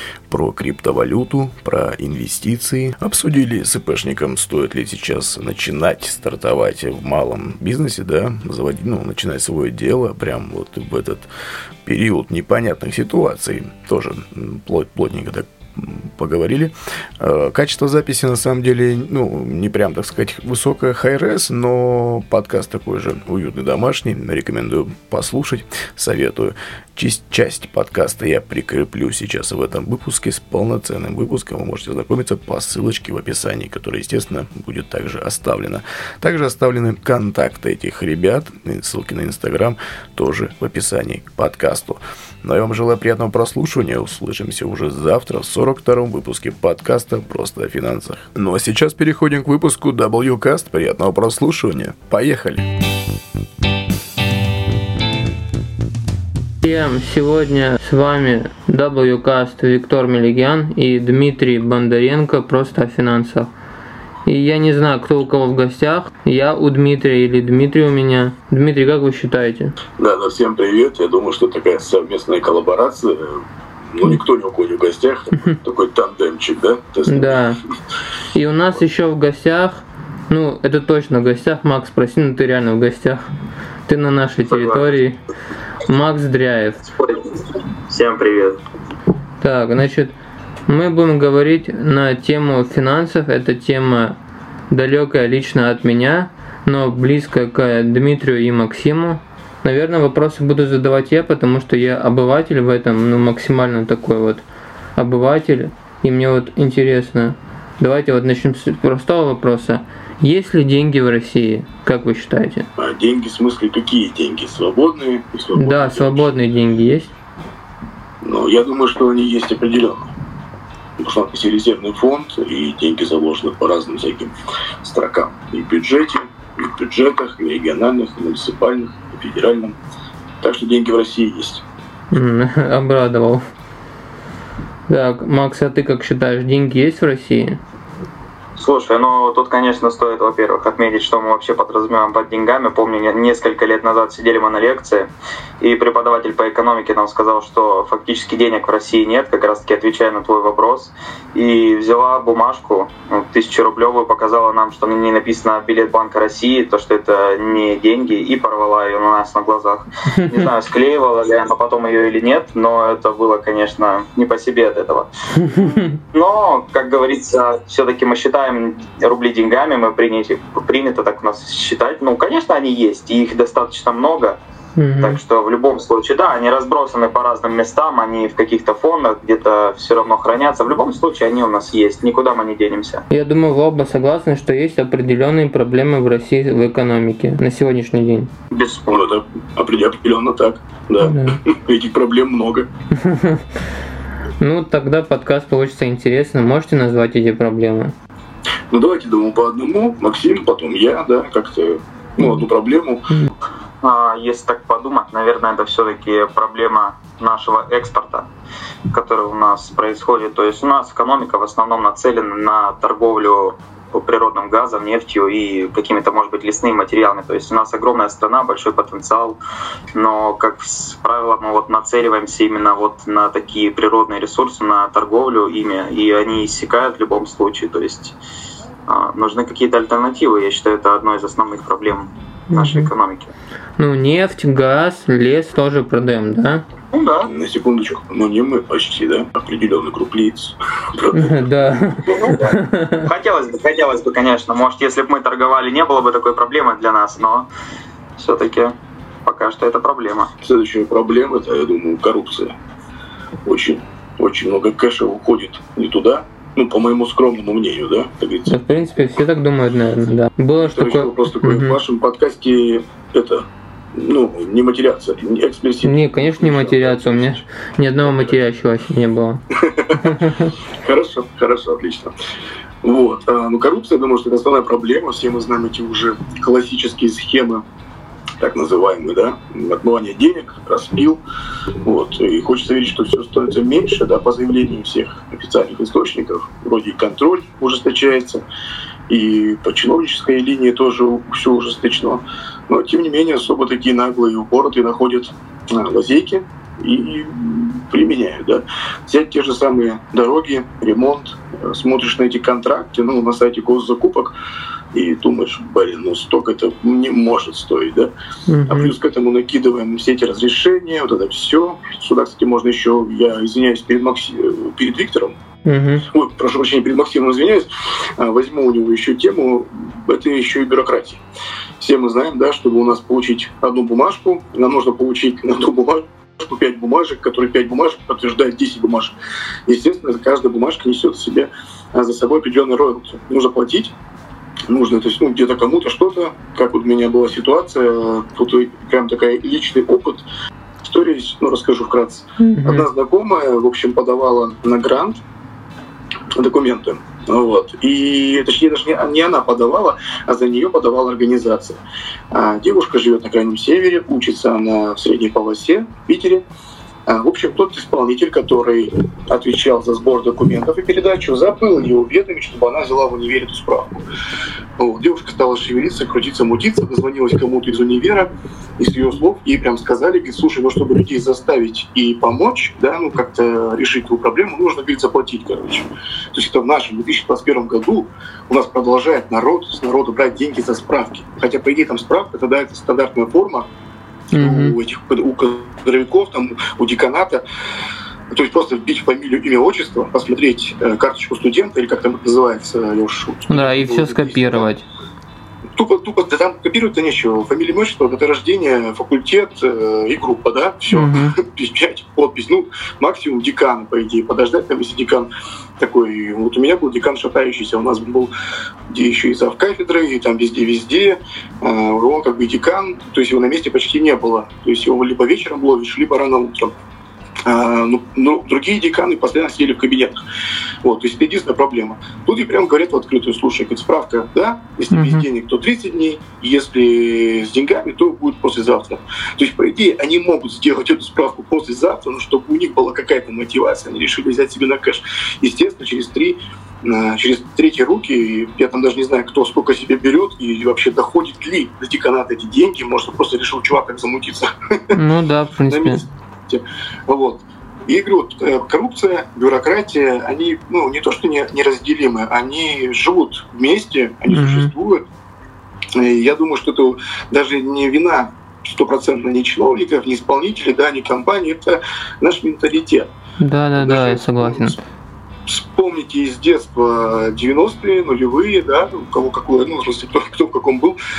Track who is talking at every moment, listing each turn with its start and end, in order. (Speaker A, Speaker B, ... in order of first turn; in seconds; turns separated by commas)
Speaker A: 0.3-11.3, Speaker A: 11.8-52.7, Speaker B: 56.6-63.5, Speaker B: 64.2-69.8, Speaker C: 70.0-77.5, Speaker B: 77.1-77.6, Speaker B: 78.3-83.2, Speaker B: 83.9-85.2, Speaker D: 84.4-84.9, Speaker B: 85.8-86.8, Speaker D: 86.9-88.6, Speaker B: 89.4-90.1, Speaker B: 90.7-94.2, Speaker B: 94.7-104.4, Speaker B: 105.0-112.7, Speaker C: 112.8-116.3, Speaker B: 115.5-117.1, Speaker C: 118.2-120.1, Speaker C: 121.0-129.8, Speaker C: 130.4-131.6, Speaker B: 132.1-133.4, Speaker B: 134.9-137.6, Speaker D: 138.6-174.4, Speaker B: 165.4-166.0, Speaker B: 174.8-175.2, Speaker D: 175.0-183.0, Speaker B: 183.1-188.3, Speaker D: 188.5-189.0, Speaker C: 188.9-192.7, Speaker B: 191.0-191.4, Speaker B: 192.9-193.4, Speaker B: 194.4-197.9, Speaker C: 198.7-203.0, Speaker B: 202.2-202.5, Speaker D: 203.8-208.3, Speaker D: 208.9-219.4, Speaker D: 219.9-228.2, Speaker D: 228.9-233.3, Speaker B: 232.5-232.9, Speaker B: 233.8-236.6, Speaker D: 236.9-237.3, Speaker C: 237.3-241.5, Speaker B: 241.1-243.1, Speaker D: 242.1-247.5, Speaker D: 248.2-250.3, Speaker C: 250.4-252.6, Speaker C: 253.4-258.8, Speaker B: 258.5-261.8, Speaker C: 260.6-268.4, Speaker B: 265.8-269.4, Speaker C: 269.5-270.2, Speaker B: 270.0-270.5, Speaker C: 270.8-272.1, Speaker C: 272.8-277.6, Speaker C: 278.4-281.2, Speaker C: 281.8-288.4, Speaker C: 289.1-304.3, Speaker C: 304.9-308.1, Speaker B: 308.5-308.9, Speaker C: 308.7-315.4, Speaker B: 315.6-316.1, Speaker C: 316.1-321.2, Speaker C: 321.8-329.1, Speaker C: 329.7-333.9, Speaker C: 334.7-340.2, Speaker C: 340.9-345.2, Speaker B: 342.4-342.9, Speaker C: 346.3-356.4, Speaker C: 357.1-364.0, Speaker C: 364.8-383.7, Speaker B: 384.3-384.7, Speaker C: 384.3-387.4, Speaker C: 388.3-394.7, Speaker B: 393.5-394.8, Speaker C: 395.7-405.3, Speaker B: 400.9-401.4, Speaker C: 405.8-408.3, Speaker C: 408.9-416.7, Speaker C: 417.4-420.1, Speaker C: 420.8-445.0, Speaker B: 424.9-425.2, Speaker B: 444.9-446.0, Speaker C: 445.7-455.0, Speaker B: 454.3-454.7, Speaker C: 455.9-463.1, Speaker B: 463.4-464.8, Speaker C: 463.8-464.8, Speaker C: 465.5-471.0